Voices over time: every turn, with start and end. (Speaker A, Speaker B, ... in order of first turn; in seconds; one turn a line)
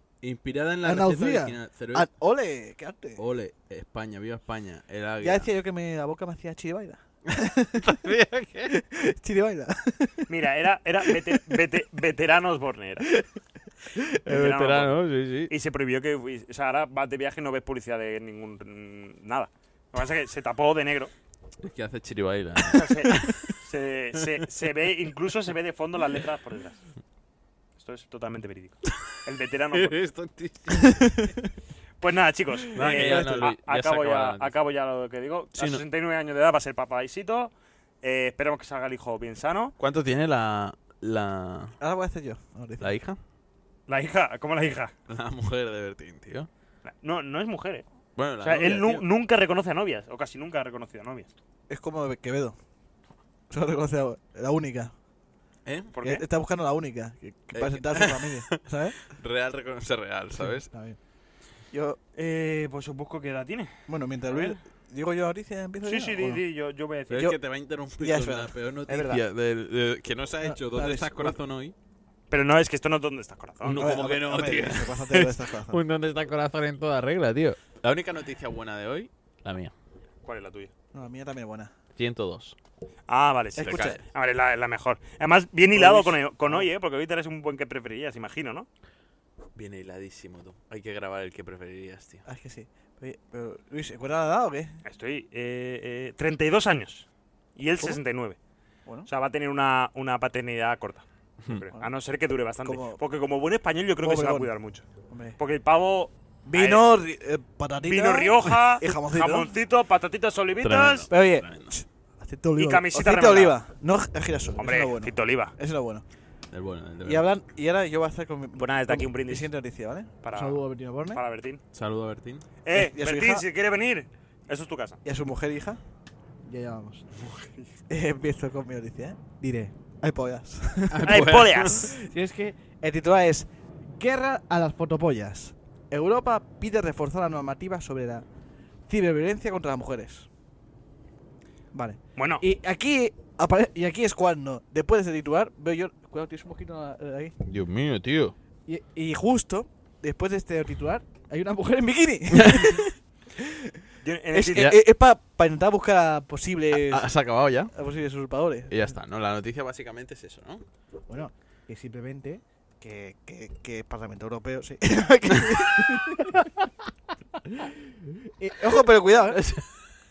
Speaker A: 0.2-2.1
Speaker B: 0.8-3.2
Speaker A: 3.2-5.5
Speaker B: 5.2-8.0
Speaker A: 7.8-8.7
Speaker B: 8.7-10.3
Speaker C: 10.3-13.1
Speaker A: 14.2-15.5
Speaker C: 14.3-14.9
Speaker C: 15.5-21.1
Speaker A: 21.6-23.5
Speaker C: 22.6-26.8
Speaker C: 27.8-30.0
Speaker A: 29.7-31.3
Speaker B: 31.0-31.3
Speaker C: 32.0-39.7
Speaker A: 32.7-34.6
Speaker B: 32.8-33.4
Speaker A: 35.6-35.8
Speaker A: 39.8-41.8
Speaker B: 41.8-42.9
Speaker A: 42.8-43.2
Speaker C: 43.9-44.9
Speaker A: 45.1-46.5
Speaker C: 46.9-47.9
Speaker A: 48.1-49.0
Speaker C: 48.4-51.3
Speaker B: 51.7-52.6
Speaker B: 53.5-54.9
Speaker A: 55.6-55.9
Speaker C: 55.9-56.2
Speaker B: 56.0-59.0
Speaker A: 57.5-60.7
Speaker B: 60.4-61.0
Speaker B: 61.7-62.0
Speaker C: 62.1-63.7
Speaker B: 63.9-66.4
Speaker C: 64.3-64.6
Speaker C: 65.8-67.3
Speaker B: 67.1-67.4
Speaker A: 67.1-71.7
Speaker B: 68.0-68.5
Speaker C: 68.9-69.2
Speaker B: 70.4-71.4
Speaker C: 72.3-74.0
Speaker A: 73.6-79.7
Speaker B: 73.7-75.8
Speaker C: 80.2-80.7
Speaker B: 80.9-81.7
Speaker A: 82.0-82.5
Speaker C: 83.1-88.7
Speaker B: 83.6-84.0
Speaker A: 83.6-84.0
Speaker B: 85.7-86.7
Speaker A: 89.5-92.2
Speaker B: 92.3-94.8
Speaker C: 94.8-98.4
Speaker C: 99.1-104.8
Speaker B: 102.6-103.0
Speaker B: 104.0-104.5
Speaker B: 105.1-105.4
Speaker C: 105.4-106.9
Speaker B: 106.4-109.5
Speaker C: 107.8-111.1
Speaker A: 110.6-111.7
Speaker B: 111.1-116.0
Speaker C: 112.6-113.6
Speaker C: 114.6-115.5
Speaker A: 116.5-117.3
Speaker B: 117.0-121.2
Speaker C: 118.6-119.5
Speaker C: 120.2-121.6
Speaker A: 121.7-122.4
Speaker C: 122.6-125.0
Speaker B: 122.7-123.5
Speaker B: 125.0-125.8
Speaker B: 126.4-127.0
Speaker C: 127.2-127.7
Speaker B: 127.9-138.3
Speaker A: 130.9-131.9
Speaker C: 131.1-131.9
Speaker B: 138.9-140.3
Speaker B: 141.7-147.3
Speaker C: 142.2-142.4
Speaker A: 147.4-148.3
Speaker B: 148.7-157.1
Speaker A: 152.3-152.9
Speaker C: 154.0-154.7
Speaker A: 156.7-157.7
Speaker B: 157.7-158.8
Speaker A: 158.7-160.6
Speaker B: 161.1-166.4
Speaker B: 167.5-169.4
Speaker A: 169.3-169.7